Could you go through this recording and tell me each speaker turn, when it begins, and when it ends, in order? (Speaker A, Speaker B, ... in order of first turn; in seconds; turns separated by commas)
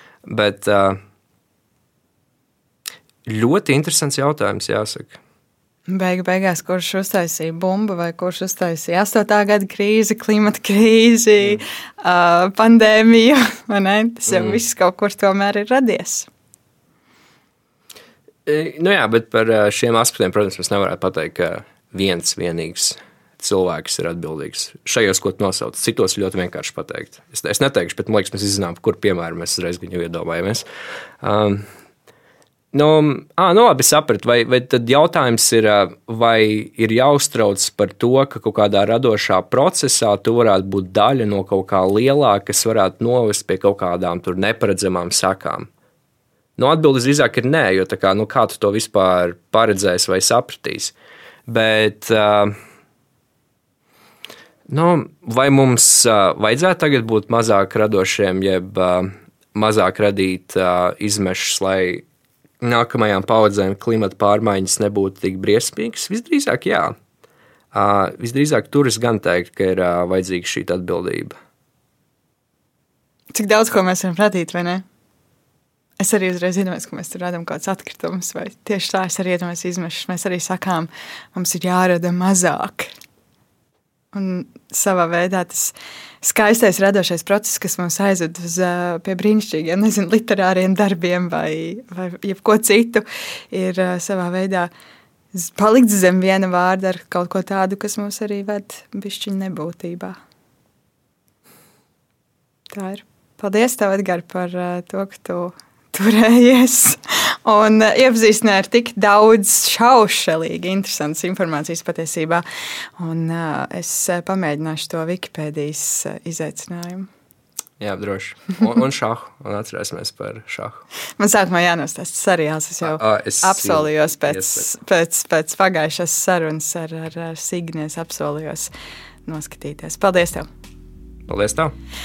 Speaker A: 0.2-1.0, Speaker A: 3.3-5.2, Speaker B: 5.9-16.3, Speaker A: 14.3-14.6, Speaker A: 18.4-30.6, Speaker A: 31.2-31.6, Speaker A: 32.7-45.7, Speaker A: 46.6-50.9, Speaker A: 51.5-52.5, Speaker A: 54.7-62.0, Speaker A: 62.6-66.9, Speaker A: 67.7-71.4, Speaker B: 73.3-74.8, Speaker B: 76.0-82.9, Speaker B: 84.1-94.7, Speaker B: 95.3-100.2, Speaker B: 102.7-112.4, Speaker B: 113.0-117.1, Speaker A: 117.8-120.8, Speaker B: 121.2-128.7, Speaker A: 122.8-124.7, Speaker B: 129.3-130.5, Speaker A: 131.3-131.7